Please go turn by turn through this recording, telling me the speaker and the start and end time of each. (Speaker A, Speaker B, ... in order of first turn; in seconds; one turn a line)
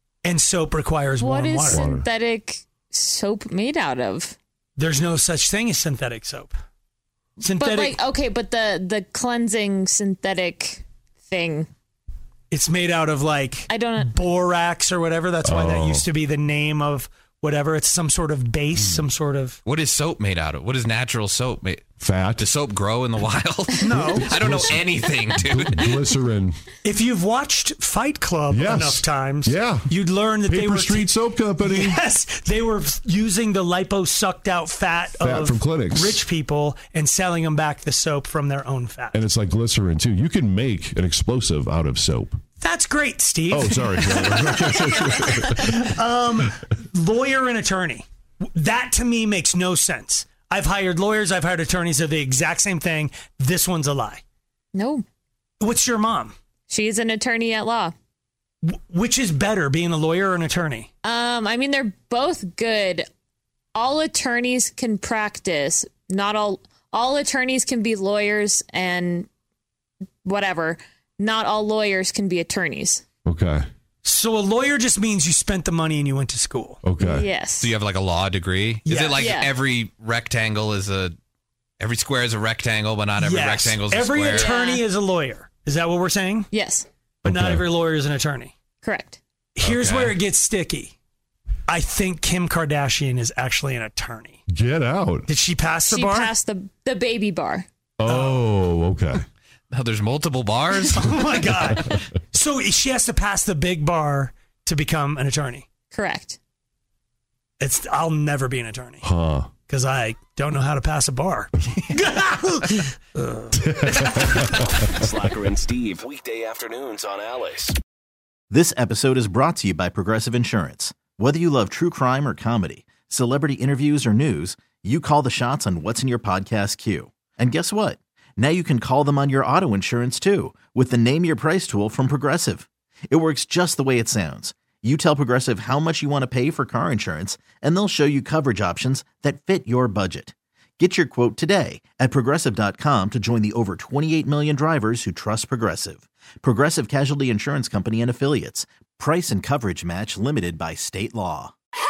Speaker A: 0.2-1.9
Speaker B: 1.2-4.4
Speaker C: 1.7-2.1
Speaker A: 4.8-6.5
Speaker A: 7.4-8.0
Speaker B: 7.5-11.7
Speaker A: 12.5-19.6
Speaker B: 13.7-14.1
Speaker C: 15.4-16.1
Speaker D: 19.7-26.0
Speaker C: 22.0-22.5
Speaker A: 23.8-24.3
Speaker C: 24.0-24.8
Speaker C: 25.4-26.6
Speaker A: 26.8-39.2
Speaker C: 28.5-29.9
Speaker C: 30.4-32.0
Speaker C: 35.2-36.2
Speaker C: 39.1-42.4
Speaker A: 42.6-54.2
Speaker C: 43.5-45.9
Speaker B: 54.7-55.0
Speaker A: 55.6-56.4
Speaker B: 56.7-58.0
Speaker A: 58.6-60.9
Speaker B: 61.0-63.1
Speaker B: 63.8-69.3
Speaker B: 70.2-73.0
Speaker C: 73.3-73.7
Speaker A: 74.0-76.8
Speaker C: 76.8-77.3
Speaker B: 77.0-77.7
Speaker D: 77.6-81.2
Speaker A: 78.8-79.3
Speaker B: 79.1-79.5
Speaker D: 81.8-84.6
Speaker A: 83.2-86.5
Speaker B: 84.3-84.8
Speaker B: 86.5-86.9
Speaker A: 87.2-88.5
Speaker C: 87.2-87.7
Speaker B: 88.8-89.2
Speaker A: 89.5-90.9
Speaker D: 89.6-90.2
Speaker A: 91.7-94.4
Speaker C: 94.5-95.3
Speaker A: 95.3-96.3
Speaker B: 95.9-97.7
Speaker C: 98.0-99.3
Speaker A: 98.0-98.4
Speaker D: 99.7-101.4
Speaker A: 100.8-105.7
Speaker B: 105.9-106.4
Speaker A: 107.6-109.1
Speaker C: 109.0-109.5
Speaker A: 109.7-114.8
Speaker C: 113.6-114.7
Speaker E: 115.0-117.8
Speaker F: 118.5-151.6